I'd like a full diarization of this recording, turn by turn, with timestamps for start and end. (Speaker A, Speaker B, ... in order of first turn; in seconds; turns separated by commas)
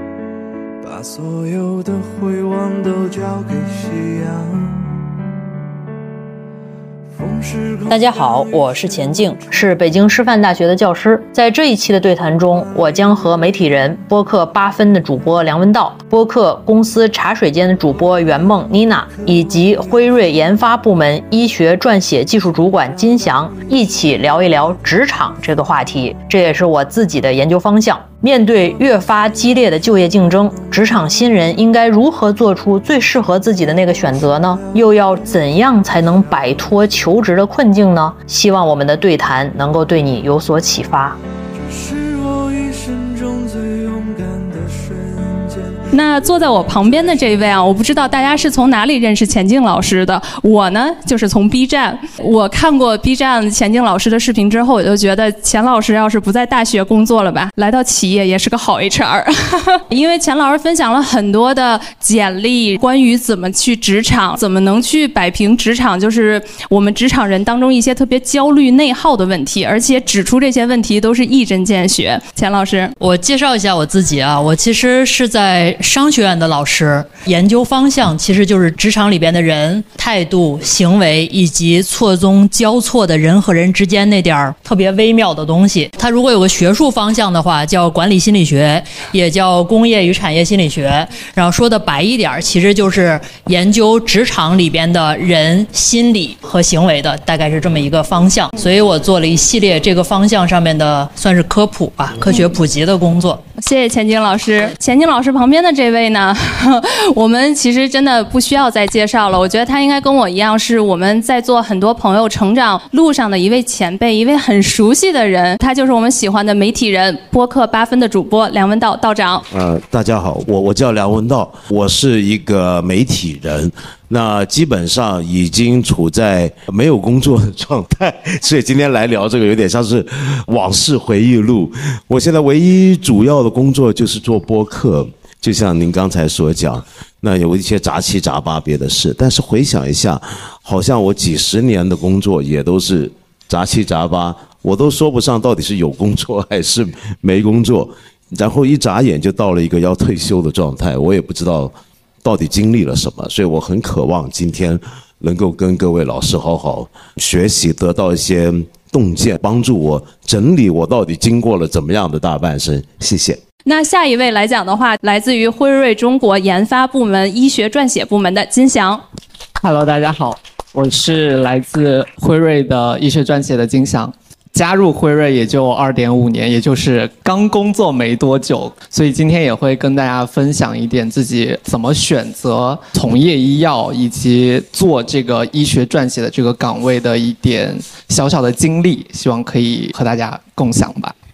Speaker A: 0.8-5.1, Speaker A: 7.2-9.4, Speaker B: 7.9-41.2, Speaker A: 41.7-45.9, Speaker C: 45.9-73.0, Speaker A: 46.9-47.2, Speaker B: 73.0-103.4, Speaker C: 103.6-119.5, Speaker D: 119.5-163.4, Speaker C: 163.7-169.0, Speaker E: 169.6-191.1